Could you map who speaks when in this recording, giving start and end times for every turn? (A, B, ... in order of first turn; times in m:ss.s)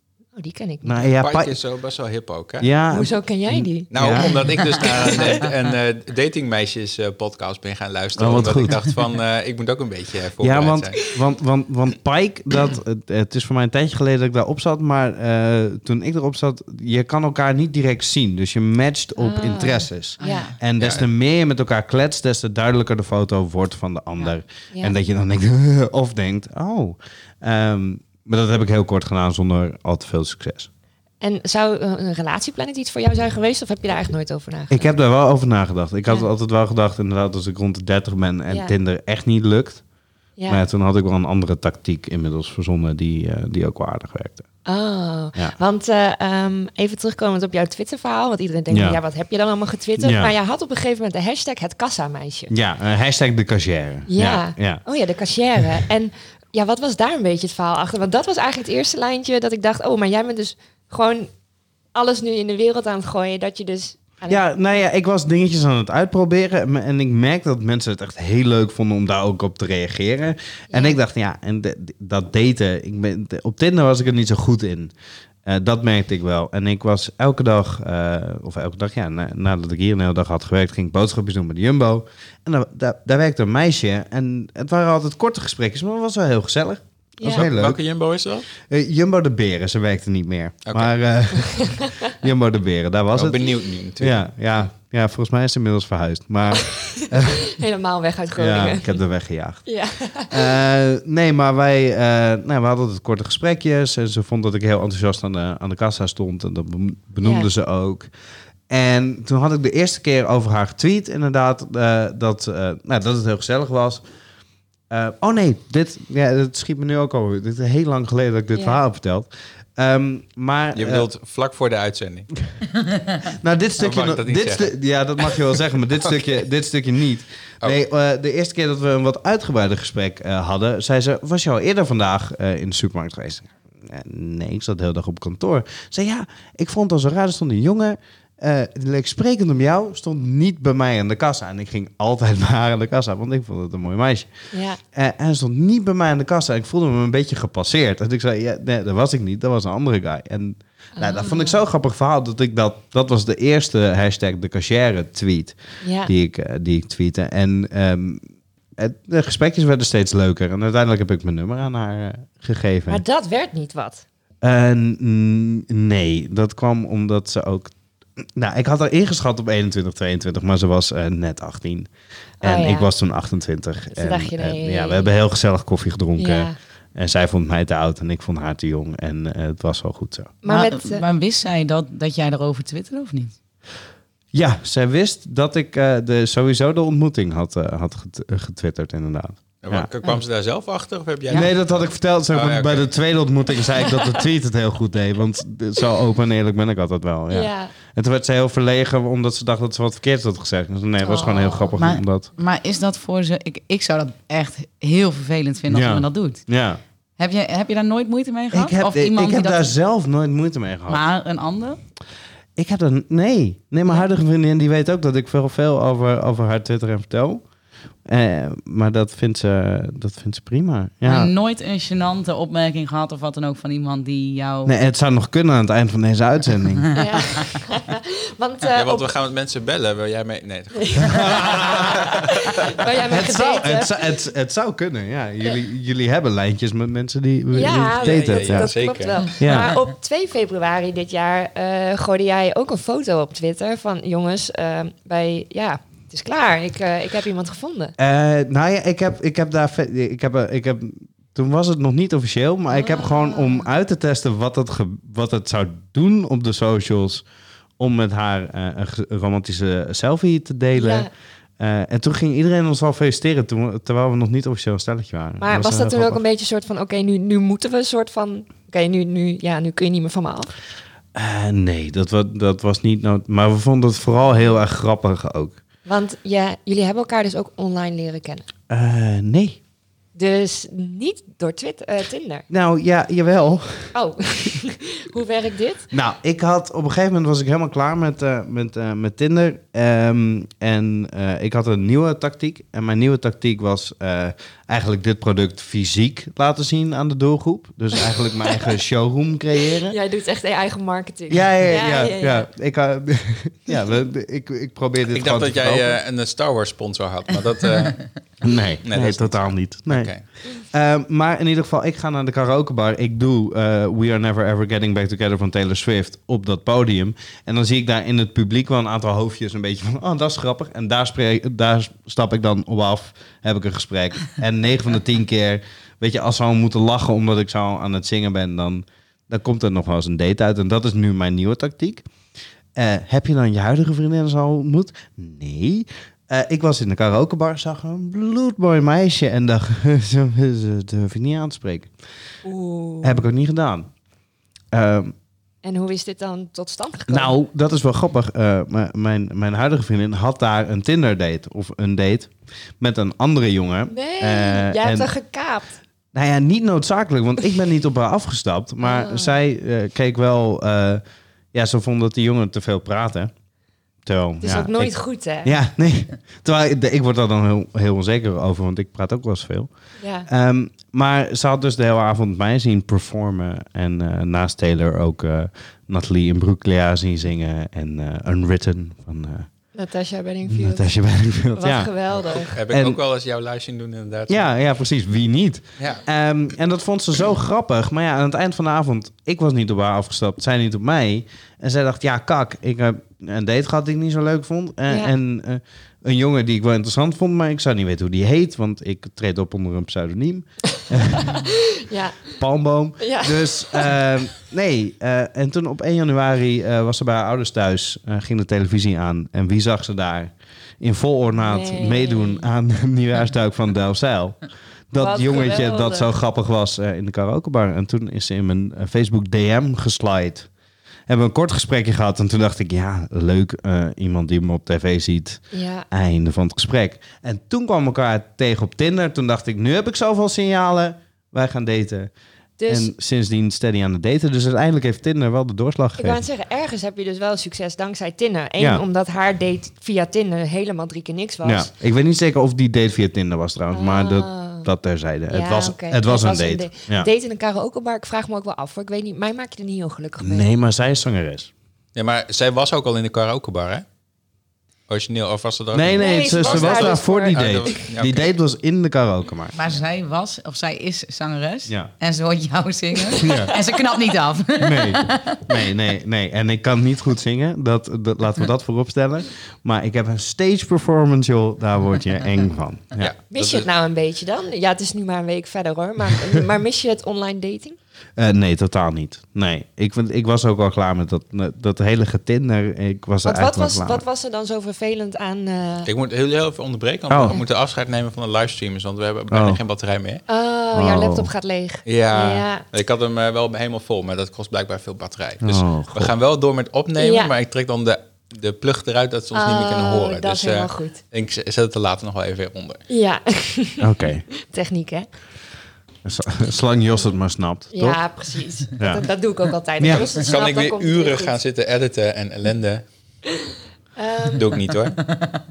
0:00.3-0:01.1 A
0:00.8-0:01.6 B
0:01.2-0:02.7 C
0:02.6-0:04.8 B
0:02.9-0:05.3 A
0:03.9-0:11.0 C
0:08.2-0:08.8 B
0:10.4-0:30.7 B
0:19.2-0:20.5 A
0:20.2-0:20.5 D
0:20.8-0:21.0 C
0:24.2-0:24.9 A
0:31.2-0:34.9 A
0:34.7-0:39.8 B
0:40.4-0:44.4 B
0:44.6-0:52.5 A
0:48.7-0:49.0 B
0:50.0-0:50.3 B
0:52.5-0:54.8 B
0:54.1-1:01.3 A
1:01.9-1:04.5 A
1:04.3-1:14.9 B
1:10.7-1:11.0 A
1:15.4-1:27.8 B
1:27.2-1:27.4 A
1:27.2-1:28.4 C
1:28.6-1:33.4 B
1:30.6-1:30.9 C
1:33.1-1:34.2 C
1:34.0-1:37.5 B
1:36.6-1:38.9 A
1:38.4-1:39.7 B
1:39.6-1:40.4 A
1:40.3-1:48.1 B
1:47.2-1:47.5 A
1:48.7-1:54.0 B
1:54.9-2:01.1 B
1:58.5-1:58.8 A
2:00.7-2:02.3 C
2:03.2-2:38.2 B
2:03.8-2:05.4 C
2:24.5-2:24.8 A
2:31.0-2:31.6 A
2:35.8-2:36.1 A
2:38.8-2:43.0 B
2:42.9-2:44.0 A
2:44.4-2:51.9 B
2:52.4-3:00.3 B
2:52.4-2:52.9 A
2:53.9-2:55.1 A
2:56.2-2:56.5 A
3:00.4-3:01.0 A
3:00.5-3:03.4 D
3:04.3-3:09.9 B
3:09.6-3:12.9 C
3:11.3-3:22.3 B
3:17.3-3:17.7 A
3:21.0-3:21.7 A
3:21.8-3:26.4 D
3:25.7-3:26.8 B
3:27.2-3:29.7 D
3:28.5-3:31.0 B
3:30.9-3:31.8 D
3:32.6-3:37.4 B
3:38.0-3:41.3 B
3:41.0-3:44.7 D
3:44.6-3:47.2 B
3:46.9-3:49.1 A
3:48.7-3:52.8 C
3:50.8-3:54.0 A
3:51.1-3:52.2 B
3:53.0-3:58.7 B
3:57.5-4:07.9 A
3:57.9-3:59.3 C
3:59.4-3:59.8 B
4:08.0-4:17.2 B
4:12.7-4:13.6 A
4:17.8-4:26.2 B
4:20.7-4:21.1 A
4:25.4-4:30.5 A
4:31.1-4:35.6 B
4:35.8-4:38.4 A
4:38.7-4:39.6 B
4:40.1-4:42.4 A
4:42.5-4:44.0 B
4:43.9-4:45.9 A
4:45.9-5:00.0 B
4:59.9-5:02.5 A
5:01.3-5:06.0 B
5:05.1-5:08.3 C
5:08.4-5:32.1 B
5:08.8-5:10.2 C
5:32.7-5:41.9 B
5:42.4-5:43.3 A
5:43.0-5:43.9 B
5:44.7-5:45.1 B
5:45.6-5:47.3 A
5:47.1-5:55.1 B
5:53.9-5:55.7 A
5:56.1-6:01.0 B
5:58.8-5:59.3 A
6:01.5-6:03.3 B
6:04.0-6:19.5 B
6:04.4-6:05.5 A
6:10.0-6:10.3 A
6:19.7-6:20.9 A
6:20.5-6:21.9 B
6:21.6-6:22.5 A
6:22.1-6:24.5 C
6:22.7-6:23.0 B
6:24.3-6:41.3 B
6:41.2-6:42.2 A
6:42.4-7:00.5 B
6:43.0-6:43.9 A
6:51.4-6:52.5 A
6:55.0-6:56.1 A
7:01.1-7:12.1 B
7:05.5-7:05.9 A
7:12.6-7:12.9 A
7:12.7-7:16.2 B
7:16.0-7:21.7 A
7:18.6-7:18.8 B
7:21.4-7:27.1 B
7:23.7-7:24.7 A
7:25.3-7:30.5 A
7:30.2-7:31.5 B
7:31.9-7:33.8 C
7:34.9-7:38.3 C
7:35.7-7:39.5 B
7:35.9-7:37.8 A
7:39.5-7:45.4 D
7:43.2-7:43.5 B
7:44.6-7:53.1 B
7:53.0-7:53.7 C
7:53.3-7:57.8 A
7:58.2-8:04.0 B
8:03.2-8:05.9 A
8:05.8-8:10.2 C
8:07.1-8:07.4 B
8:09.3-8:09.6 B
8:10.3-8:12.6 A
8:10.7-8:11.3 B
8:11.8-8:22.8 C
8:15.4-8:16.1 B
8:17.0-8:17.3 A
8:19.3-8:21.0 A
8:22.9-8:23.9 A
8:23.8-8:24.3 B
8:24.4-8:25.1 A
8:26.0-8:28.0 B
8:27.7-8:31.4 A
8:28.8-8:29.0 B
8:29.8-8:30.1 B
8:30.1-8:32.8 C
8:34.0-8:34.4 A
8:34.3-8:35.0 C